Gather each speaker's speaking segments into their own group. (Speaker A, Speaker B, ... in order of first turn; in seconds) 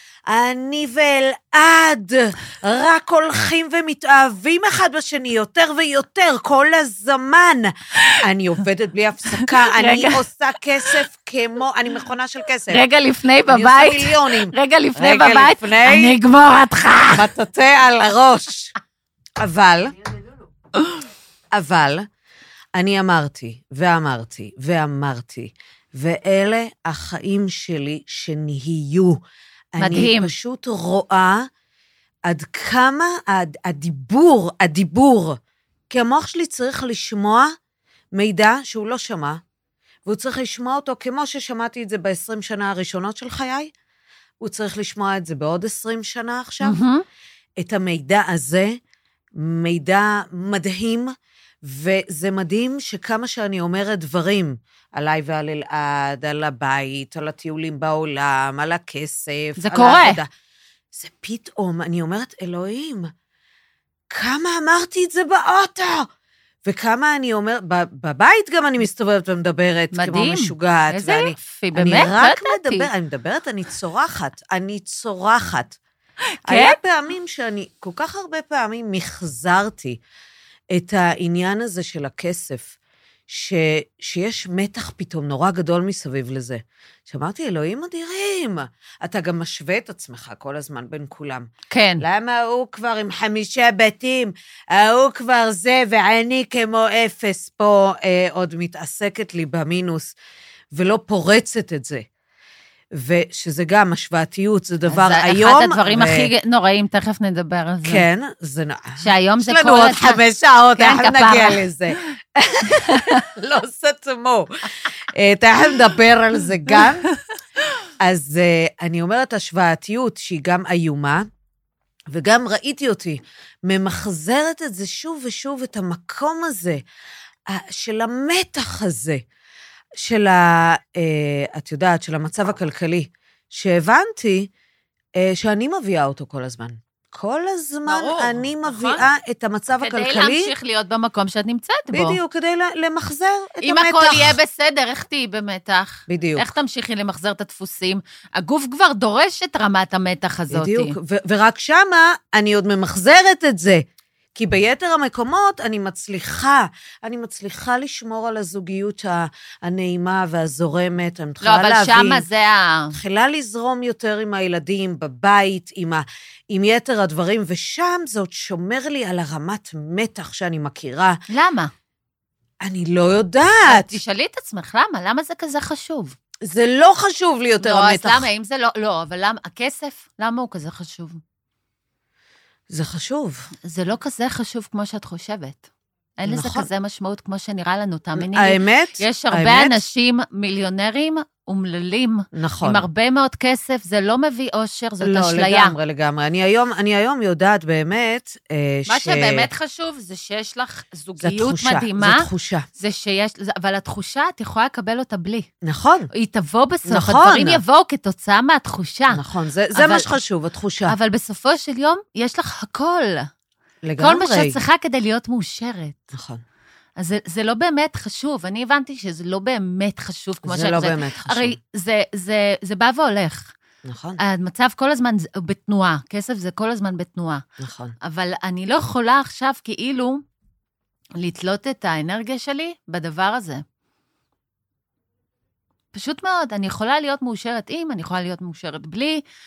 Speaker A: 0.3-12.8, 13.5-16.1, 17.1-18.8, 19.4-20.0, 21.5-22.1, 22.8-29.2, 29.8-31.5, 32.2-35.4, 35.9-37.5, 38.1-39.4, 40.0-43.7, 44.4-46.8, 47.6-48.8, 49.4-60.3, 60.9-63.1, 64.1-66.1, 66.6-75.8, 76.5-80.0, 80.7-82.8, 83.3-100.1, 100.7-102.0, 102.9-106.3, 107.8-117.0, 118.0-121.2, 122.1-126.8, 127.5-129.2, 130.0-134.5, 135.2-140.5, 141.9-144.4, 146.1-146.4, 150.5-153.8, 154.4-162.2, 162.9-171.2, 172.6-173.9, 176.4-178.3, 182.7-183.5, 186.2-186.7, 188.2-189.8, 192.3-192.9, 195.0-199.5, 201.2-202.7, 205.6-206.1, 206.9-207.6, 209.1-210.9, 213.8-214.6, 216.1-216.4, 220.4-221.6, 223.8-224.2, 227.6-227.9
Speaker B: 9.3-10.2, 12.7-17.3, 29.8-30.3, 46.6-47.0, 59.6-60.2, 69.9-72.9, 76.4-76.8, 91.7-92.0, 104.9-108.0, 109.0-110.2, 110.8-111.6, 112.7-113.2, 137.9-139.1, 139.8-142.2, 143.6-150.9, 161.4-162.9, 171.3-171.7, 173.7-176.2, 177.6-181.2, 183.7-185.6, 186.2-195.8, 198.9-205.5, 206.1-210.2, 210.9-213.3, 214.0-216.1, 217.0-223.5, 224.2-227.4, 228.0-230.2, 231.2-233.6, 235.9-239.2